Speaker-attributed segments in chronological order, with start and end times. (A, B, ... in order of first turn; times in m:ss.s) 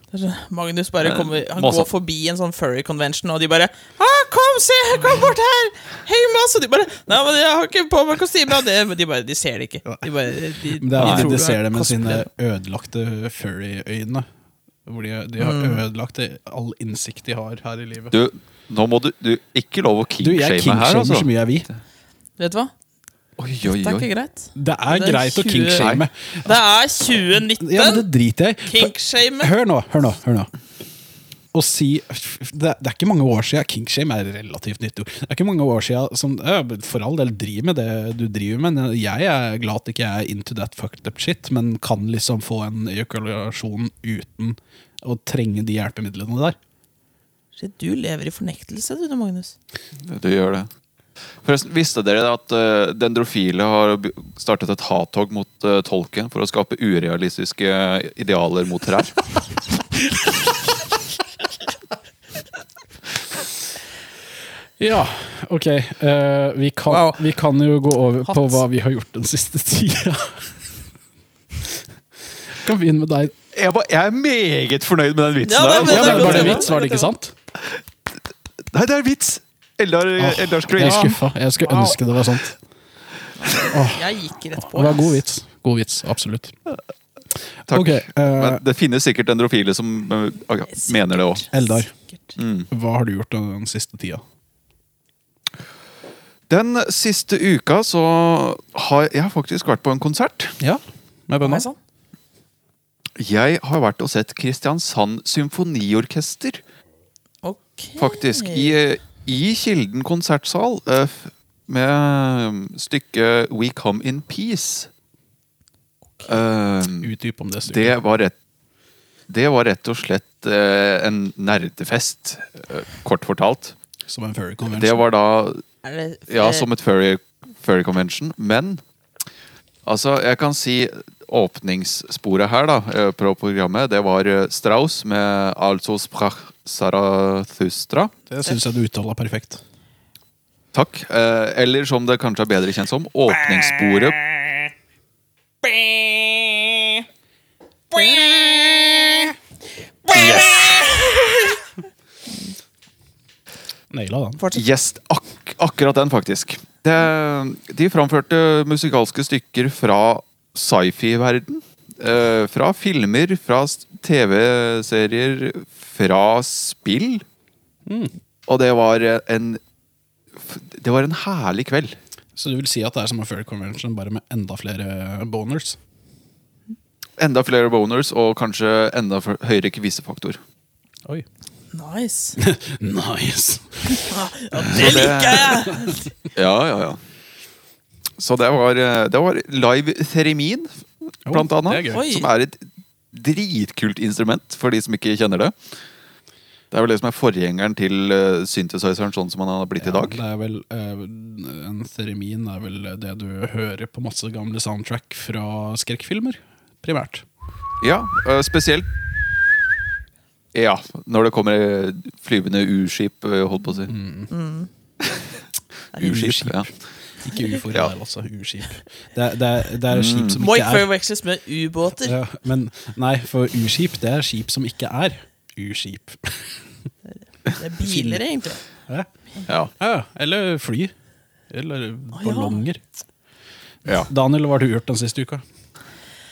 0:00.1-0:12.2 A
0:01.0-0:01.9 B
0:10.8-0:14.3 C
0:11.0-0:11.3 B
0:14.8-0:18.2 C
0:15.4-0:15.8 A
0:18.1-0:21.3 B
0:20.2-0:21.7 C
0:22.4-0:22.7 A
0:23.4-0:24.1 B
0:23.6-0:25.9 A
0:24.6-0:26.5 C
0:25.8-0:26.0 B
0:26.4-0:28.0 A
0:27.6-0:30.5 C
0:28.6-0:29.5 A
0:31.5-0:46.6 C
0:47.6-0:49.5 A
0:50.0-0:50.7 B
0:51.4-0:59.2 B
1:04.8-1:10.5 C
1:06.9-1:07.2 A
1:12.5-1:13.3 C
1:13.5-1:16.6 B
1:15.4-1:17.1 A
1:15.8-1:17.3 C
1:18.7-1:22.0 B
1:20.2-1:22.5 C
1:23.4-1:25.2 A
1:23.7-1:26.5 C
1:27.7-1:28.6 C
1:27.7-1:31.4 B
1:30.7-1:32.4 A
1:31.5-1:31.9 C
1:32.4-1:32.7 B
1:32.7-1:34.2 C
1:36.5-1:40.6 B
1:40.6-1:41.6 C
1:41.4-1:41.8 A
1:43.2-1:46.6 B
1:47.4-1:48.7 A
1:48.0-1:54.9 B
1:56.2-1:57.1 B
1:57.0-1:58.0 C
1:57.6-1:58.3 B
1:59.3-2:03.8 B
2:04.1-2:05.0 C
2:04.6-2:05.6 B
2:05.8-2:06.7 A
2:06.3-2:08.8 B
2:09.8-2:18.1 B
2:18.3-2:19.6 C
2:20.7-2:24.2 B
2:23.3-2:24.6 A
2:25.6-2:27.0 A
2:27.9-2:29.4 A
2:30.0-2:31.6 A
2:30.1-2:30.8 B
2:33.9-2:34.4 C
2:34.4-2:34.6 A
2:34.5-2:47.2 B
2:47.8-2:48.1 C
2:48.5-2:49.6 B
2:50.4-2:52.0 B
2:52.4-2:55.8 C
2:57.2-3:00.4 B
3:01.7-3:02.4 A
3:02.4-3:04.1 C
3:03.9-3:06.0 A
3:04.6-3:05.0 C
3:04.6-3:05.6 B
3:05.5-3:05.9 C
3:06.3-3:07.0 B
3:08.2-3:15.5 B
3:11.3-3:12.0 C
3:11.9-3:12.3 A
3:16.7-3:20.2 B
3:19.8-3:27.2 C
3:27.8-3:28.9 B
3:30.5-3:33.9 B
3:33.9-3:34.3 C
3:34.3-3:34.7 A
3:35.9-3:36.7 B
3:36.0-3:36.7 C
3:37.2-3:40.9 C
3:39.9-3:40.4 B
3:40.4-3:42.2 A
3:42.0-3:46.6 C
3:47.5-3:48.6 A
3:47.8-3:48.2 C
3:49.4-3:49.7 B
3:49.8-3:50.9 C
3:51.5-3:52.8 C
3:52.1-3:52.6 A
3:53.9-3:55.4 C